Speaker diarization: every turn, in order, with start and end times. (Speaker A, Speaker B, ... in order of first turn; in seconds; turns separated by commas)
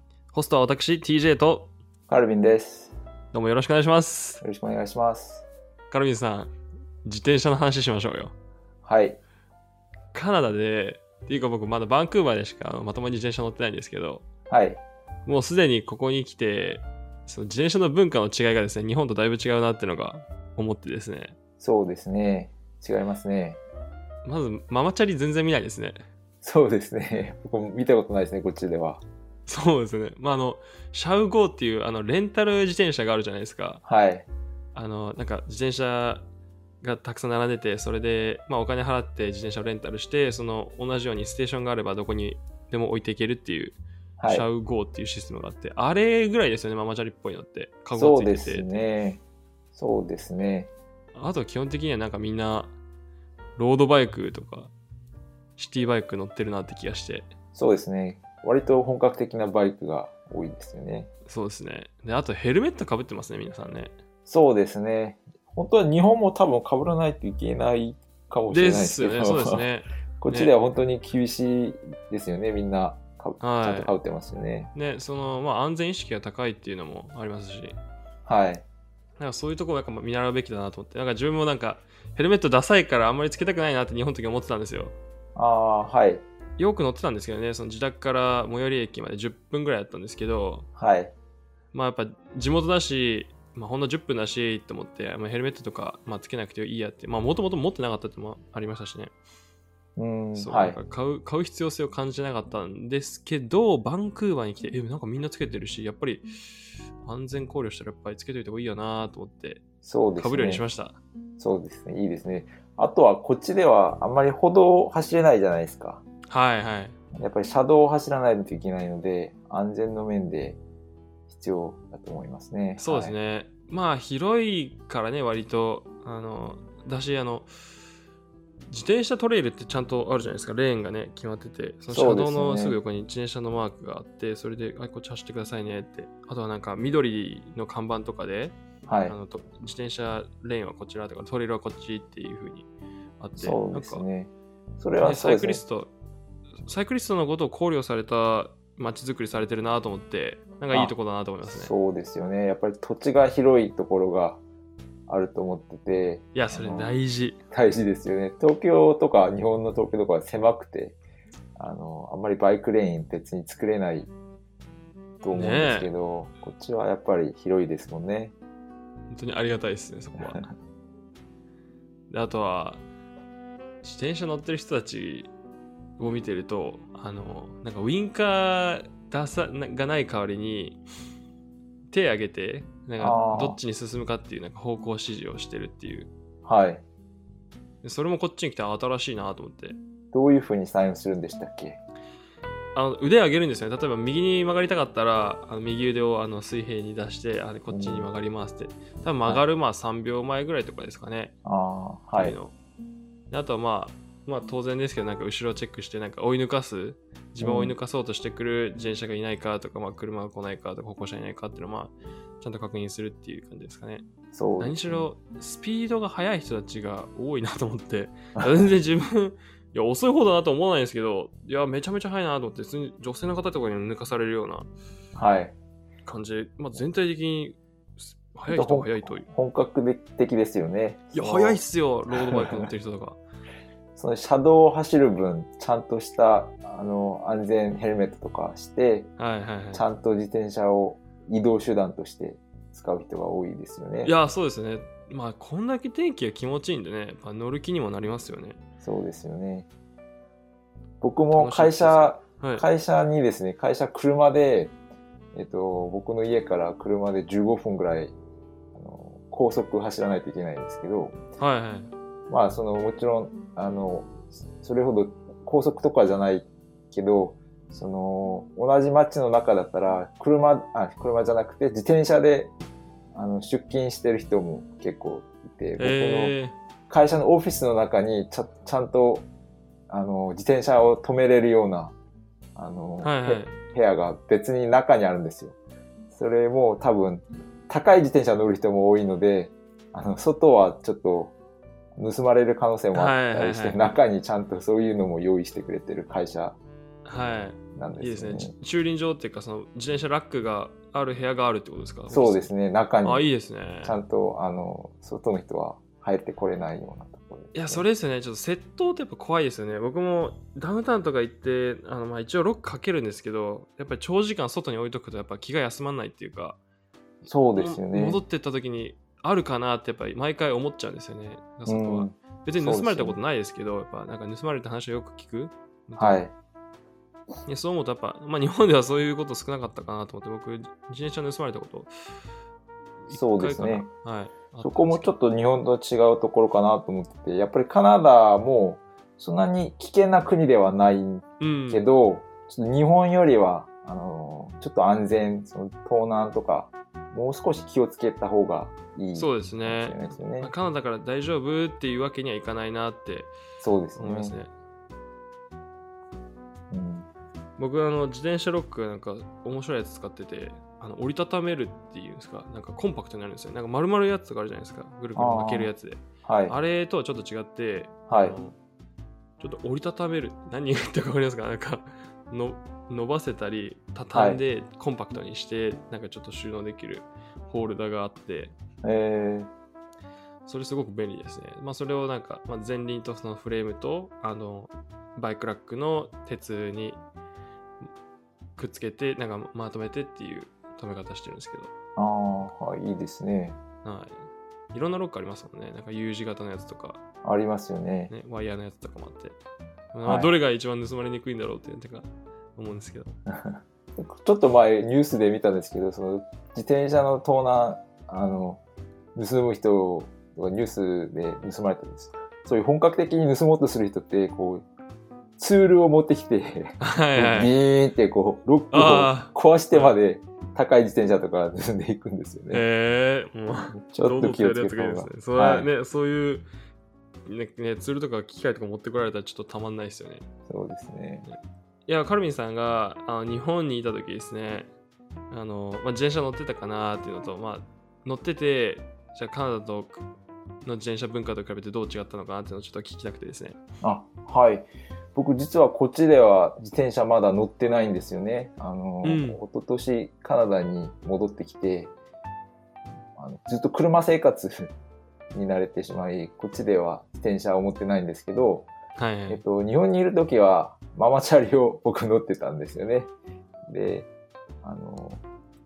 Speaker A: 0.3-1.7, Speaker B: 2.1-2.9, Speaker A: 3.3-4.4, Speaker B: 4.4-5.5, Speaker A: 5.9-6.5, Speaker A: 7.0-8.3, Speaker B: 8.8-9.2, Speaker A: 10.1-14.2, Speaker B: 14.5-14.8, Speaker A: 15.2-21.4, Speaker B: 21.6-23.6, Speaker A: 24.2-26.0, Speaker B: 26.4-29.0, Speaker A: 29.5-33.8, Speaker B: 33.8-34.3, Speaker A: 34.7-36.2, Speaker A: 36.8-48.8, Speaker B: 44.2-44.5, Speaker B: 47.9-49.2, Speaker B: 49.7-50.7, Speaker A: 51.1-52.7, Speaker A: 53.6-54.7, Speaker A: 55.6-57.3, Speaker B: 57.5-61.1, Speaker A: 61.3-63.9, Speaker B: 64.3-69.7, Speaker A: 68.5-70.5, Speaker B: 70.2-74.7, Speaker A: 73.4-73.9, Speaker A: 74.7-77.8, Speaker B: 78.2-78.6, Speaker A: 79.2-84.9, Speaker B: 85.3-86.2, Speaker A: 86.6-90.7, Speaker B: 90.8-91.1, Speaker A: 91.7-99.1, Speaker B: 100.0-100.8, Speaker A: 100.3-106.3, Speaker A: 107.0-109.6, Speaker B: 109.8-110.6, Speaker A: 110.2-111.0, Speaker B: 111.4-116.0, Speaker A: 116.3-117.0, Speaker B: 117.1-120.6, Speaker B: 121.3-123.1, Speaker A: 122.8-127.5, Speaker A: 128.7-142.7, Speaker B: 131.9-132.8, Speaker B: 138.9-139.2, Speaker A: 143.2-144.0, Speaker B: 143.4-145.6, Speaker A: 145.0-145.9, Speaker A: 146.7-151.7, Speaker B: 150.7-154.4, Speaker B: 155.1-156.9, Speaker A: 156.3-157.4, Speaker B: 157.5-161.0, Speaker B: 161.6-164.1, Speaker B: 165.2-168.3, Speaker A: 165.3-165.9, Speaker A: 169.1-170.5, Speaker A: 172.1-172.8, Speaker A: 173.8-175.3, Speaker A: 176.0-180.8, Speaker A: 181.9-186.1, Speaker B: 183.0-183.6, Speaker B: 186.4-186.8, Speaker A: 187.8-189.8, Speaker B: 190.1-191.8, Speaker A: 192.7-201.3, Speaker B: 197.7-198.1, Speaker B: 201.4-202.4, Speaker A: 202.2-202.5, Speaker A: 203.3-214.0, Speaker B: 207.4-207.8, Speaker B: 214.3-215.1, Speaker A: 214.6-224.7, Speaker B: 218.4-218.7, Speaker B: 225.1-225.5, Speaker A: 226.1-229.3, Speaker B: 228.5-231.6, Speaker A: 231.1-233.2, Speaker B: 232.1-232.4, Speaker B: 233.9-239.1, Speaker A: 239.2-239.8, Speaker B: 239.7-244.1, Speaker A: 244.0-248.6, Speaker B: 248.8-249.7, Speaker B: 251.0-254.7, Speaker A: 251.3-252.7, Speaker B: 255.3-258.1, Speaker B: 258.7-261.2, Speaker A: 261.4-261.9, Speaker B: 262.3-272.5, Speaker B: 273.1-276.3, Speaker A: 275.8-276.5, Speaker B: 276.9-279.2, Speaker B: 279.9-281.9, Speaker B: 282.6-285.6, Speaker A: 283.0-283.5, Speaker B: 286.1-291.3, Speaker B: 291.9-296.6, Speaker A: 292.9-293.9, Speaker A: 297.0-302.5, Speaker B: 297.8-298.5, Speaker B: 302.1-303.3, Speaker A: 303.0-304.0, Speaker B: 303.8-307.9, Speaker A: 307.5-316.6, Speaker B: 317.2-318.2, Speaker A: 317.6-326.2, Speaker B: 321.6-323.2, Speaker B: 326.0-326.3, Speaker A: 327.4-331.9, Speaker A: 333.0-335.1, Speaker B: 333.1-333.9, Speaker B: 334.6-350.5, Speaker A: 341.4-341.8, Speaker A: 349.1-353.3, Speaker B: 353.6-354.4, Speaker A: 354.0-354.5, Speaker B: 356.7-357.1, Speaker A: 357.6-368.6, Speaker B: 365.1-365.7, Speaker B: 366.2-366.6, Speaker B: 368.1-368.4, Speaker A: 369.4-378.5, Speaker B: 374.1-374.4, Speaker B: 378.8-379.5, Speaker A: 380.4-387.0, Speaker A: 388.6-391.7, Speaker B: 391.9-393.6, Speaker A: 393.8-397.0, Speaker B: 397.2-398.1, Speaker A: 398.1-399.4, Speaker A: 399.9-403.1, Speaker B: 400.0-400.3, Speaker B: 403.3-408.6, Speaker B: 409.1-414.6, Speaker B: 415.4-422.6, Speaker A: 416.8-417.5, Speaker A: 418.7-420.0, Speaker A: 422.5-426.4, Speaker B: 423.7-425.7, Speaker A: 427.2-430.2, Speaker B: 430.5-431.3, Speaker A: 431.2-434.7, Speaker A: 435.3-440.1, Speaker A: 440.6-443.6, Speaker B: 443.8-451.9, Speaker A: 449.0-449.4, Speaker B: 453.1-454.7, Speaker B: 455.3-458.7, Speaker A: 458.9-459.4, Speaker B: 459.3-463.1, Speaker B: 463.7-464.1, Speaker B: 464.6-465.2